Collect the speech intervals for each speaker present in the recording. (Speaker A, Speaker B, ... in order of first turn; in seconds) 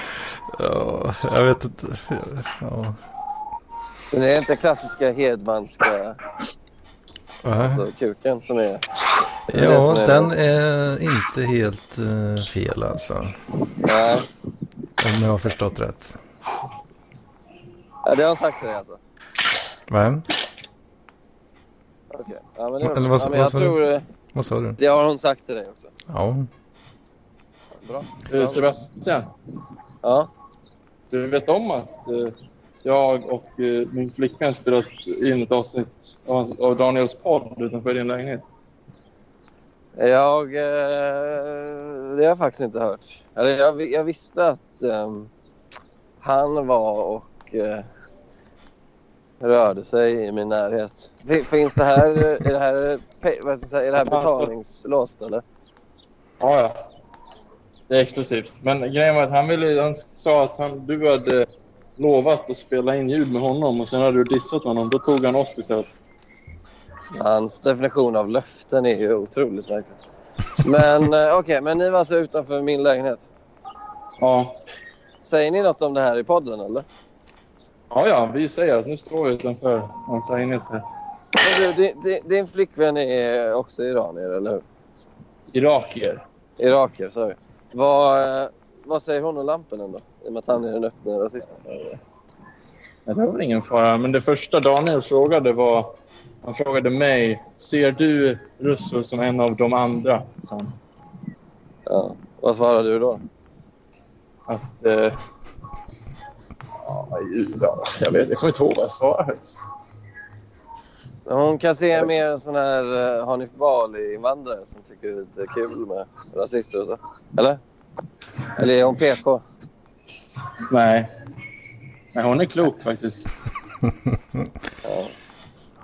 Speaker A: 0.5-3.0, 7.4-7.9, 9.5-13.3, 15.0-16.2, 19.9-20.3, 22.8-23.8, 24.3-24.8, 26.1-26.5
Speaker B: 4.1-6.2, 7.6-8.8, 9.5-10.3, 13.8-14.3, 18.1-19.0, 22.1-24.0, 24.8-25.9, 27.8-28.7, 30.0-30.3, 40.0-45.3, 46.2-47.9, 49.4-55.4, 67.1-70.0, 70.6-73.3, 75.2-76.9, 81.4-84.6, 86.6-91.6, 101.9-103.2, 111.3-117.6, 118.5-119.4, 124.8-125.1
Speaker C: 28.3-29.3, 31.1-38.4, 54.0-54.5, 56.4-56.8, 57.9-65.9, 74.2-74.6, 77.9-80.8, 85.5-86.2, 93.1-95.9, 96.4-100.7, 104.5-105.2, 106.8-109.6, 120.7-121.1, 122.1-123.3